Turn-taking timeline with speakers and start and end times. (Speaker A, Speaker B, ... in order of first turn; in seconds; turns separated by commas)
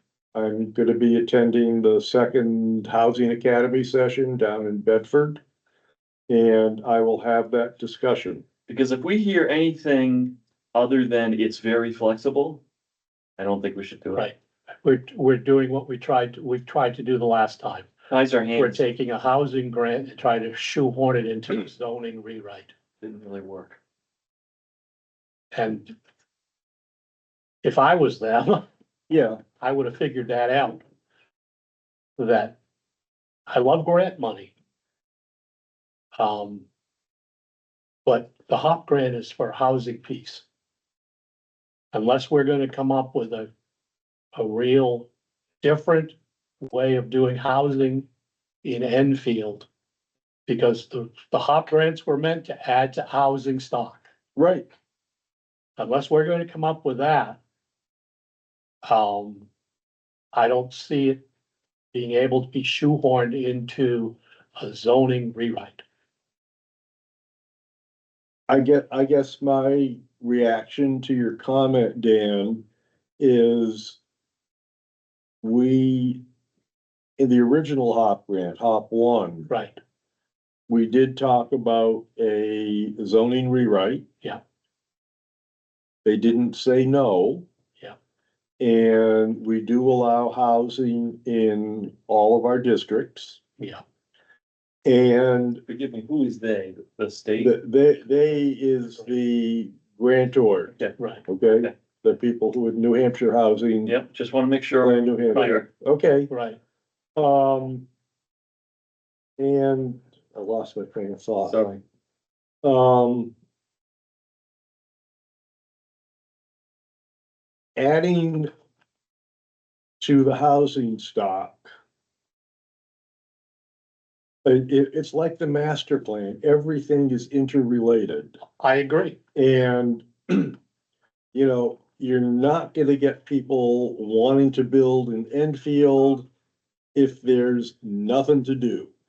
Speaker A: 0.3-5.4, Speaker A: 6.3-8.4, Speaker B: 8.7-12.6, Speaker B: 13.4-14.3, Speaker C: 14.2-17.9, Speaker B: 18.1-18.8, Speaker C: 18.6-22.7, Speaker B: 23.0-23.8, Speaker C: 25.5-25.9, Speaker C: 27.6-28.7, Speaker A: 29.1-29.4, Speaker C: 29.6-30.8, Speaker C: 32.2-32.6, Speaker C: 33.5-34.5, Speaker C: 36.1-36.6, Speaker C: 38.0-40.4, Speaker C: 41.9-43.5, Speaker C: 44.4-45.1, Speaker C: 45.6-48.1, Speaker C: 48.6-49.7, Speaker C: 50.5-54.1, Speaker A: 54.4-54.7, Speaker C: 55.8-57.4, Speaker C: 58.8-59.5, Speaker C: 60.3-61.2, Speaker C: 61.9-65.8, Speaker A: 68.5-72.7, Speaker A: 73.2-74.0, Speaker A: 75.4-76.2, Speaker A: 77.2-79.5, Speaker C: 79.5-79.8, Speaker A: 80.7-84.0, Speaker A: 86.0-87.5, Speaker A: 88.6-93.4, Speaker A: 94.9-95.6, Speaker B: 95.7-97.6, Speaker A: 97.4-100.8, Speaker C: 101.0-101.2, Speaker A: 101.3-104.0, Speaker B: 103.9-105.7, Speaker A: 104.8-106.3, Speaker C: 106.3-106.6, Speaker A: 107.2-107.9, Speaker A: 109.4-111.6, Speaker B: 111.5-111.8, Speaker A: 112.6-113.3, Speaker A: 117.8-118.5, Speaker A: 120.0-121.7, Speaker A: 124.5-128.4, Speaker C: 128.6-129.2, Speaker A: 129.3-130.6, Speaker A: 131.3-136.3, Speaker A: 136.9-138.9